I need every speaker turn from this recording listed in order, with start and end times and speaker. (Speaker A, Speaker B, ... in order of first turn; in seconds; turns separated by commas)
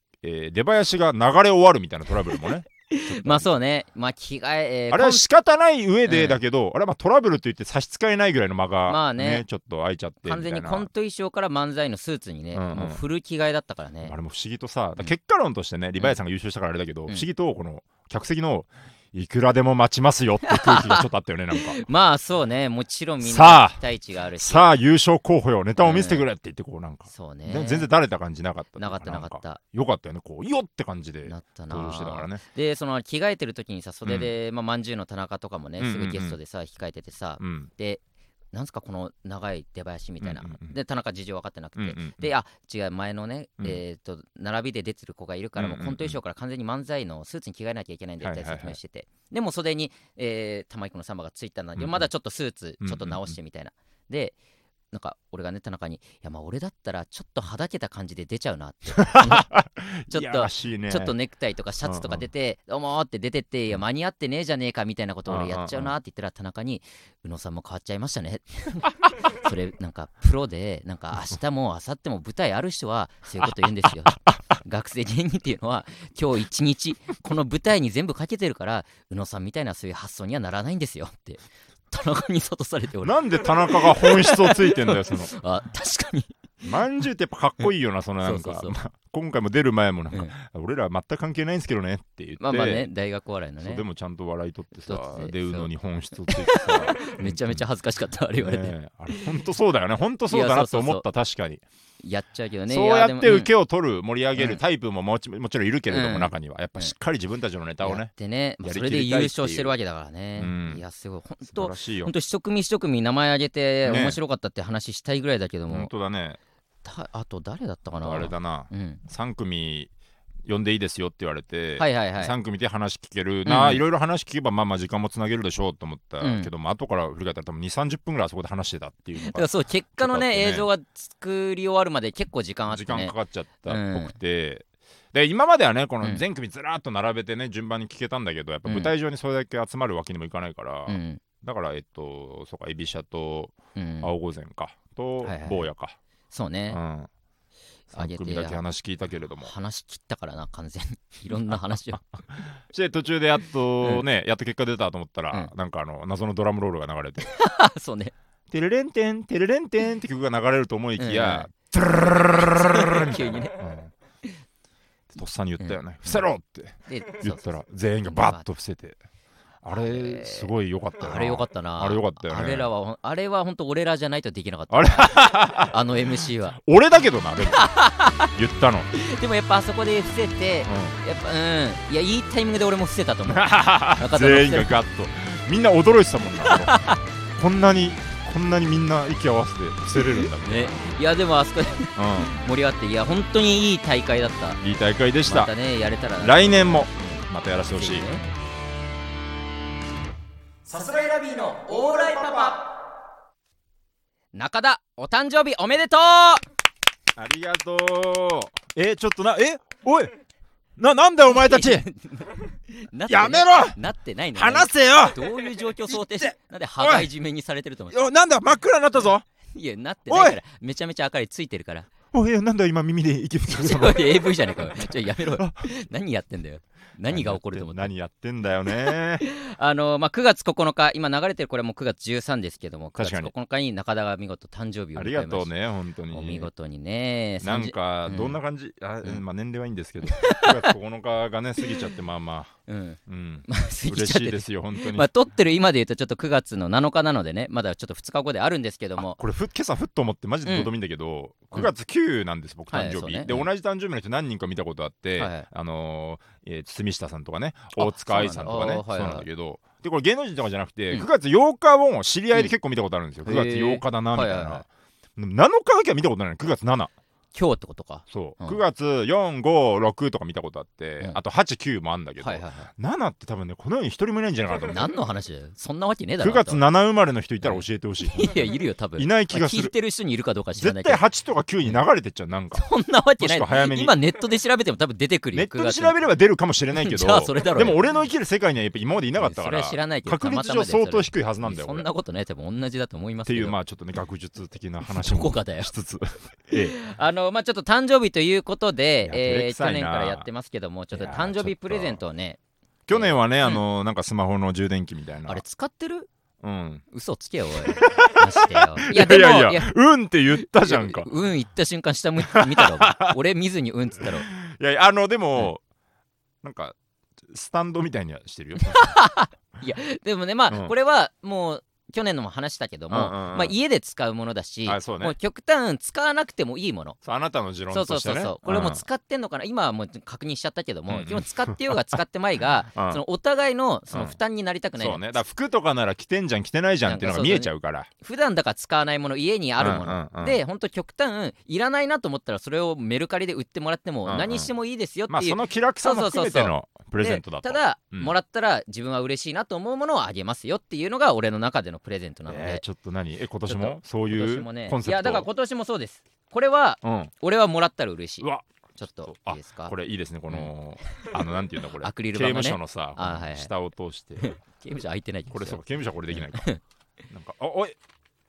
Speaker A: 0.2-3.5, Speaker B: 2.3-5.2, Speaker A: 4.9-10.9, Speaker B: 6.0-6.4, Speaker B: 8.9-9.4, Speaker B: 10.2-14.1, Speaker A: 12.5-13.0, Speaker A: 14.0-21.8, Speaker B: 20.4-24.7, Speaker A: 23.2-23.8, Speaker A: 24.4-32.4, Speaker B: 25.8-26.2, Speaker B: 27.1-27.9, Speaker B: 28.8-29.6, Speaker B: 31.2-38.0, Speaker A: 34.0-34.3, Speaker A: 35.8-36.4, Speaker A: 37.4-37.7, Speaker B: 38.5-54.4, Speaker A: 40.2-40.8, Speaker A: 41.8-42.3, Speaker A: 45.6-46.2, Speaker A: 48.2-48.8, Speaker A: 51.8-52.1, Speaker A: 52.8-53.4, Speaker B: 54.9-59.5, Speaker A: 59.0-61.1, Speaker B: 60.1-86.3, Speaker A: 61.8-62.3, Speaker A: 65.3-65.9, Speaker A: 73.4-74.4, Speaker A: 83.0-85.3, Speaker A: 86.6-92.9, Speaker B: 88.2-88.8, Speaker B: 92.4-93.8, Speaker A: 93.6-97.6, Speaker B: 94.8-95.7, Speaker B: 96.2-99.3, Speaker A: 98.4-101.6, Speaker B: 100.3-101.0, Speaker B: 102.0-103.5, Speaker A: 102.7-108.1, Speaker B: 104.3-104.6, Speaker B: 105.9-106.9, Speaker B: 107.8-115.9, Speaker A: 108.6-109.7, Speaker A: 110.4-110.8, Speaker A: 111.5-112.1, Speaker A: 113.8-114.2, Speaker A: 115.7-116.4, Speaker B: 116.8-119.0, Speaker A: 118.0-119.9, Speaker A: 120.4-130.7, Speaker B: 121.8-122.3, Speaker B: 123.5-123.8, Speaker B: 126.2-126.5, Speaker B: 129.2-133.1, Speaker A: 132.7-146.0, Speaker B: 133.7-134.1, Speaker B: 138.7-138.9, Speaker B: 140.9-141.2, Speaker B: 143.8-144.1, Speaker B: 145.2-145.7, Speaker B: 146.3-146.8, Speaker A: 146.7-147.1, Speaker B: 147.9-148.6, Speaker A: 147.9-149.5, Speaker B: 149.4-152.0, Speaker A: 151.3-151.6, Speaker A: 152.3-157.3, Speaker B: 157.2-158.1, Speaker A: 158.5-163.9, Speaker B: 161.0-161.5, Speaker B: 162.3-163.6, Speaker A: 165.1-169.0, Speaker B: 165.6-166.2, Speaker B: 166.9-167.4, Speaker B: 168.0-168.4, Speaker A: 169.6-172.7, Speaker B: 169.7-176.6, Speaker A: 174.7-175.7, Speaker A: 176.6-177.7, Speaker B: 177.4-178.3, Speaker A: 178.3-178.9, Speaker B: 178.9-184.7, Speaker A: 180.7-180.9, Speaker A: 183.3-186.8, Speaker B: 186.4-187.0, Speaker A: 187.4-191.0, Speaker B: 189.9-194.6, Speaker A: 191.9-192.3, Speaker A: 194.6-195.5, Speaker B: 195.2-198.2, Speaker A: 196.2-198.1, Speaker B: 200.7-202.7, Speaker B: 204.3-206.4, Speaker A: 207.2-210.1, Speaker A: 210.8-211.8, Speaker B: 211.2-218.0, Speaker A: 213.1-213.8, Speaker A: 214.3-217.1, Speaker A: 217.9-219.2, Speaker B: 219.5-221.9, Speaker A: 220.1-220.4, Speaker A: 222.1-225.7, Speaker B: 223.5-227.9, Speaker A: 227.1-229.2, Speaker B: 228.7-235.5, Speaker A: 233.0-233.3, Speaker A: 234.9-236.5, Speaker B: 236.1-238.4, Speaker A: 237.4-242.5, Speaker B: 240.0-240.7, Speaker B: 242.7-249.2, Speaker A: 243.1-245.1, Speaker A: 249.0-264.6, Speaker B: 250.4-250.7, Speaker B: 252.7-253.5, Speaker B: 255.2-255.5, Speaker B: 257.8-259.2, Speaker B: 263.2-264.6, Speaker A: 265.2-266.9, Speaker B: 267.3-268.6, Speaker A: 268.1-274.9, Speaker B: 272.2-272.7, Speaker B: 274.6-276.6, Speaker A: 276.2-279.7, Speaker B: 277.4-281.0, Speaker A: 280.6-282.6, Speaker B: 282.5-286.0, Speaker A: 283.2-283.9, Speaker A: 285.3-291.9, Speaker B: 286.7-287.8, Speaker B: 289.2-293.6, Speaker A: 293.2-296.8, Speaker B: 294.8-295.7, Speaker B: 296.5-302.4, Speaker A: 299.0-300.3, Speaker A: 300.9-302.0, Speaker A: 302.9-305.4, Speaker B: 302.9-303.6, Speaker B: 305.2-306.1, Speaker A: 306.4-306.8, Speaker B: 306.9-309.7, Speaker A: 307.6-311.1, Speaker B: 310.4-314.3, Speaker A: 312.2-313.2, Speaker A: 314.0-315.6, Speaker A: 316.4-316.8, Speaker A: 317.3-318.9, Speaker B: 318.6-327.0, Speaker A: 322.9-323.6, Speaker A: 324.6-325.1, Speaker A: 327.0-328.8, Speaker B: 327.7-335.1, Speaker A: 330.9-332.0, Speaker A: 332.7-333.0, Speaker A: 334.8-337.9, Speaker B: 336.8-352.6, Speaker A: 339.6-340.4, Speaker A: 344.1-344.5, Speaker A: 345.1-348.1, Speaker A: 352.3-355.3, Speaker B: 353.5-359.7, Speaker A: 356.8-357.1, Speaker A: 358.2-358.5, Speaker A: 359.0-364.4, Speaker B: 360.3-363.5, Speaker B: 364.2-366.6, Speaker A: 365.3-366.5, Speaker A: 367.1-367.8